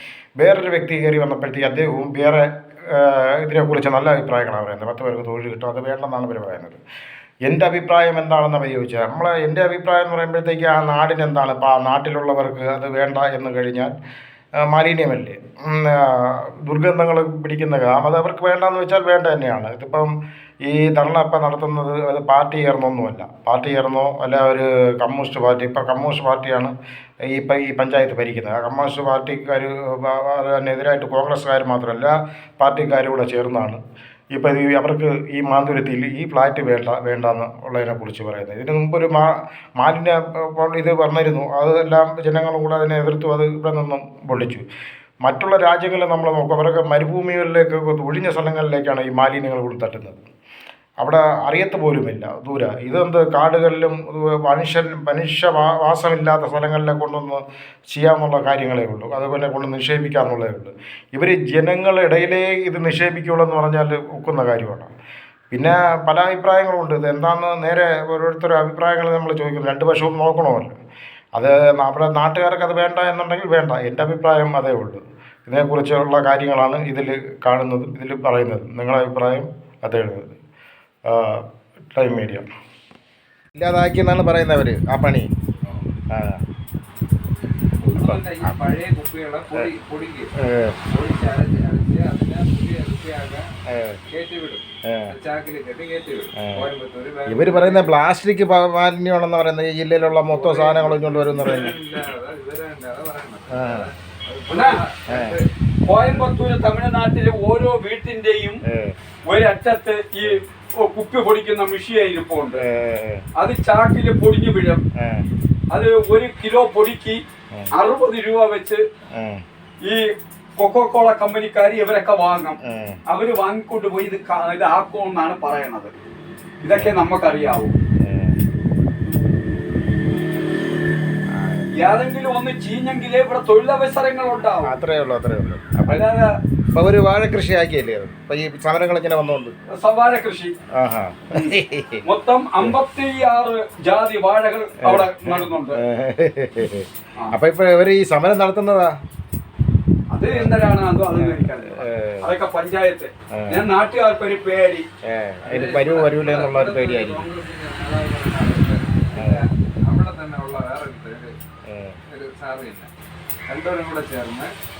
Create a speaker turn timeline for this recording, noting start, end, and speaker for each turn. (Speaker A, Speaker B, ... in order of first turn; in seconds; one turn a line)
Speaker A: 0.4-6.8
Speaker A: 7.5-13.9
Speaker A: 14.6-20.1
Speaker A: 20.6-26.7
Speaker A: 27.3-33.8
Speaker A: 34.3-44.6
Speaker A: 45.2-50.2
Speaker A: 51.0-64.9
Speaker A: 65.5-70.8
Speaker A: 71.3-80.4
Speaker A: 81.1-81.4
Speaker A: 81.9-82.5
Speaker A: 83.6-85.3
Speaker A: 86.1-86.4
Speaker B: 87.8-90.3
Speaker A: 87.9-88.7
Speaker A: 90.4-90.8
Speaker B: 90.9-93.5
Speaker A: 93.7-94.0
Speaker B: 94.1-98.0
Speaker A: 94.9-95.1
Speaker A: 96.4-96.7
Speaker A: 97.3-101.8
Speaker B: 100.1-105.4
Speaker A: 103.5-103.9
Speaker C: 104.5-104.8
Speaker A: 105.1-105.4
Speaker C: 105.9-108.6
Speaker A: 108.7-108.9
Speaker C: 109.2-112.6
Speaker A: 112.6-113.2
Speaker C: 113.4-114.8
Speaker A: 115.0-115.3
Speaker C: 115.7-117.2
Speaker C: 117.7-118.8
Speaker A: 119.2-119.4
Speaker C: 120.6-122.6
Speaker A: 122.6-123.0
Speaker C: 123.1-125.9
Speaker C: 126.6-127.8
Speaker A: 126.7-128.4
Speaker A: 131.3-131.8
Speaker C: 131.8-134.8
Speaker A: 134.6-136.1
Speaker C: 135.9-136.3
Speaker A: 136.7-139.5
Speaker C: 139.8-140.6
Speaker A: 140.8-142.1
Speaker C: 142.1-145.8
Speaker A: 144.8-148.9
Speaker C: 150.1-154.9
Speaker A: 150.3-152.2
Speaker A: 153.3-153.6
Speaker A: 155.1-157.3
Speaker B: 155.4-161.3
Speaker A: 159.2-159.5
Speaker A: 161.7-162.0
Speaker B: 162.1-162.9
Speaker B: 163.5-164.5